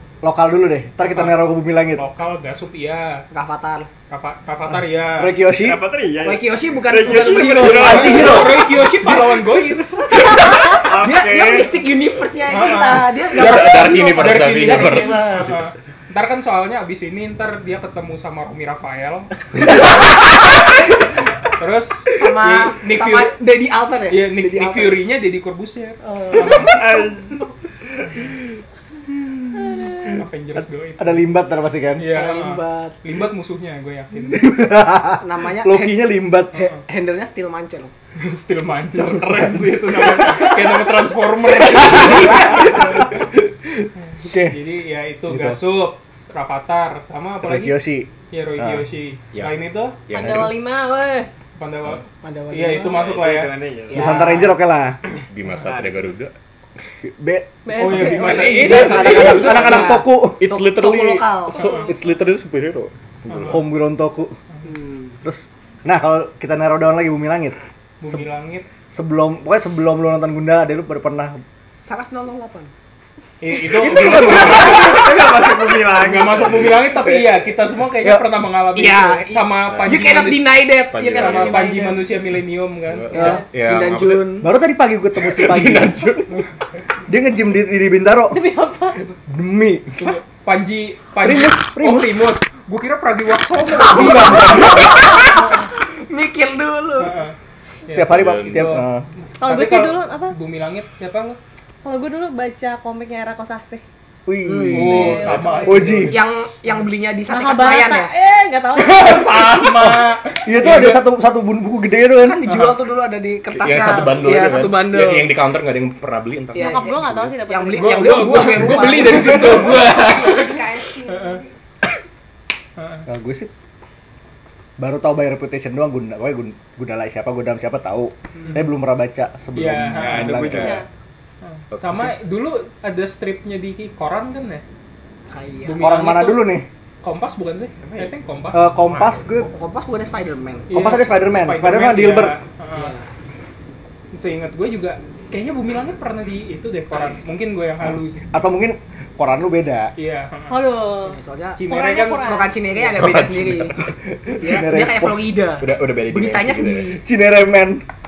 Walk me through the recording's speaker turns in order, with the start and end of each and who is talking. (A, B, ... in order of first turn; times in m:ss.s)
0:00.2-0:02.0 A
0:01.0-0:03.2 B
0:03.3-0:03.9 C
0:04.1-0:05.4 B
0:05.1-0:05.8 A
0:05.5-0:08.4 D
0:06.2-0:15.4 C
0:07.4-0:08.6 A
0:07.6-0:10.2 B
0:10.7-0:11.8 D
0:12.5-0:19.8 B
0:13.3-0:15.6 E
0:21.6-0:23.4 B
0:22.1-0:25.0 C
0:24.1-0:26.7 B
0:26.0-0:27.1 C
0:26.5-0:27.3 D
0:29.5-0:30.2 C
0:30.0-0:31.3 B
0:30.6-0:32.1 A
0:32.0-0:34.5 B
0:32.0-0:33.0 C
0:34.3-0:36.7 A
0:35.0-0:37.9 C
0:38.2-0:43.2 B
0:38.8-0:39.6 A
0:41.5-0:44.6 A
0:42.1-0:42.8 C
0:44.4-0:50.0 B
0:45.3-0:45.6 A
0:47.4-0:48.8 A
0:50.1-0:50.5 E
0:50.1-0:51.3 F
0:51.6-0:53.5 B
0:52.2-0:53.0 C
0:52.9-0:54.2 D
0:53.9-0:54.5 C
0:53.9-0:55.0 A
0:55.3-0:56.3 E
0:55.6-0:56.1 D
0:57.0-0:57.6 A
0:57.6-0:58.8 F
0:57.7-0:59.7 B
0:58.1-1:03.6 E
0:58.3-1:01.8 C
0:58.7-1:00.4 A
1:01.6-1:01.9 B
1:03.3-1:03.6 B
1:03.4-1:04.4 A
1:04.6-1:05.2 C
1:05.2-1:08.2 A
1:08.0-1:08.6 B
1:08.9-1:11.4 A
1:11.8-1:12.7 C
1:13.4-1:23.4 B
1:13.8-1:16.9 D
1:13.8-1:15.3 C
1:18.7-1:22.0 C
1:19.7-1:20.3 E
1:20.9-1:21.8 E
1:22.9-1:24.4 E
1:23.1-1:23.4 A
1:23.1-1:24.5 C
1:24.4-1:26.2 A
1:25.1-1:26.4 E
1:27.1-1:28.4 A
1:28.3-1:29.1 F
1:29.2-1:30.0 A
1:30.0-1:35.0 B
1:31.2-1:32.2 A
1:33.6-1:37.2 C
1:37.0-1:37.3 B
1:37.9-1:38.8 B
1:37.9-1:39.0 A
1:38.1-1:38.7 E
1:39.4-1:40.4 F
1:39.4-1:41.4 B
1:41.8-1:43.8 F
1:44.2-1:46.1 A
1:44.4-1:44.9 C
1:44.7-1:46.3 B
1:44.9-1:45.9 F
1:44.9-1:45.7 E
1:46.0-1:48.1 C
1:47.3-1:49.2 F
1:48.8-1:51.0 B
1:49.6-1:52.4 A
1:52.2-1:55.3 C
1:52.4-1:52.8 B
1:53.5-1:57.3 E
1:56.5-1:58.5 F
1:56.5-1:59.9 C
1:57.7-2:01.4 B
1:59.9-2:01.5 F
2:02.8-2:03.0 B
2:03.1-2:03.5 A
2:04.8-2:10.8 A
2:08.4-2:08.7 B
2:09.5-2:10.3 B
2:09.9-2:10.8 D
2:10.5-2:10.7 E
2:11.4-2:14.6 B
2:11.7-2:12.1 E
2:15.3-2:16.0 C
2:15.6-2:18.7 B
2:15.8-2:16.6 A
2:17.8-2:18.1 D
2:18.5-2:19.5 A
2:18.9-2:19.2 E
2:19.4-2:20.7 C
2:20.7-2:22.9 B
2:20.7-2:22.3 A
2:22.7-2:23.1 C
2:24.1-2:28.2 B
2:28.3-2:29.9 A
2:30.0-2:30.6 B
2:30.5-2:32.5 F
2:31.0-2:31.6 C
2:31.6-2:32.3 B
2:32.1-2:33.8 C
2:32.8-2:33.9 E
2:34.1-2:35.3 A
2:34.4-2:37.0 C
2:35.6-2:37.0 E
2:37.0-2:37.8 A